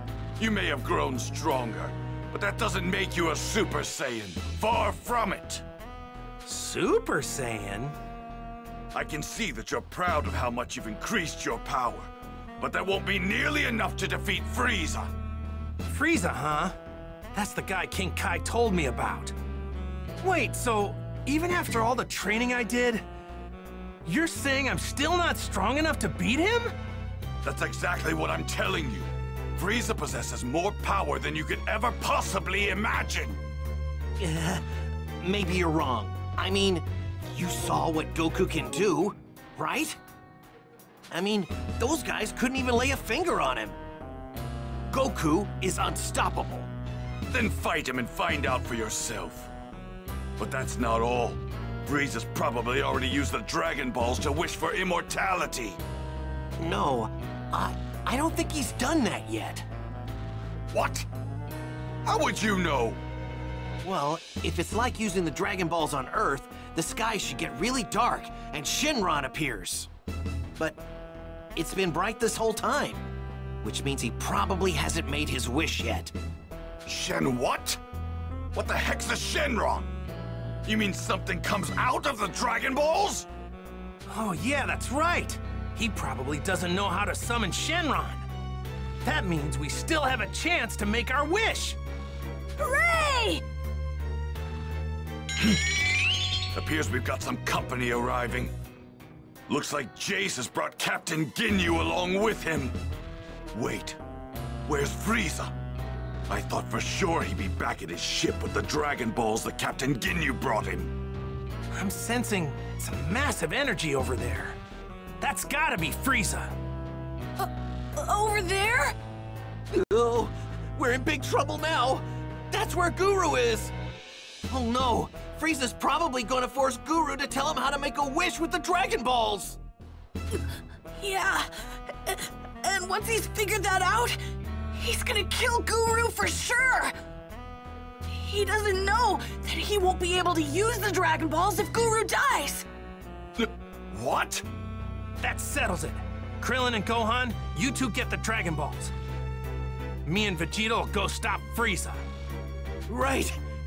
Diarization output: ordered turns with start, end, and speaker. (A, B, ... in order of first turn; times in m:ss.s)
0:00.4-0:05.6 A
0:06.4-0:08.0 B
0:08.9-0:15.1 A
0:15.8-0:16.8 B
0:17.3-0:19.4 B
0:20.2-0:23.0 B
0:24.0-0:26.7 B
0:27.4-0:33.4 A
0:34.2-0:34.6 C
0:35.2-0:40.0 C
0:41.1-0:43.8 C
0:44.9-0:46.7 C
0:47.3-0:49.5 A
0:50.4-0:55.8 A
0:56.6-0:59.7 C
1:00.7-1:01.1 A
1:02.0-1:03.0 A
1:03.8-1:09.9 C
1:11.6-1:13.1 C
1:13.6-1:16.1 C
1:16.9-1:17.8 A
1:18.5-1:19.9 A
1:20.6-1:23.3 A
1:24.1-1:28.3 B
1:29.0-1:31.8 B
1:32.6-1:33.4 D
1:36.5-1:38.5 A
1:39.5-1:42.8 A
1:43.5-1:44.0 A
1:44.6-1:45.5 A
1:46.3-1:50.9 A
1:51.7-1:54.6 B
1:55.2-1:56.6 B
1:57.4-1:59.0 D
1:59.7-2:03.7 C
2:04.5-2:09.6 C
2:11.0-2:14.2 D
2:14.7-2:17.0 D
2:18.1-2:22.6 D
2:23.4-2:24.4 A
2:25.2-2:28.9 B
2:30.0-2:32.0 B
2:32.9-2:33.4 C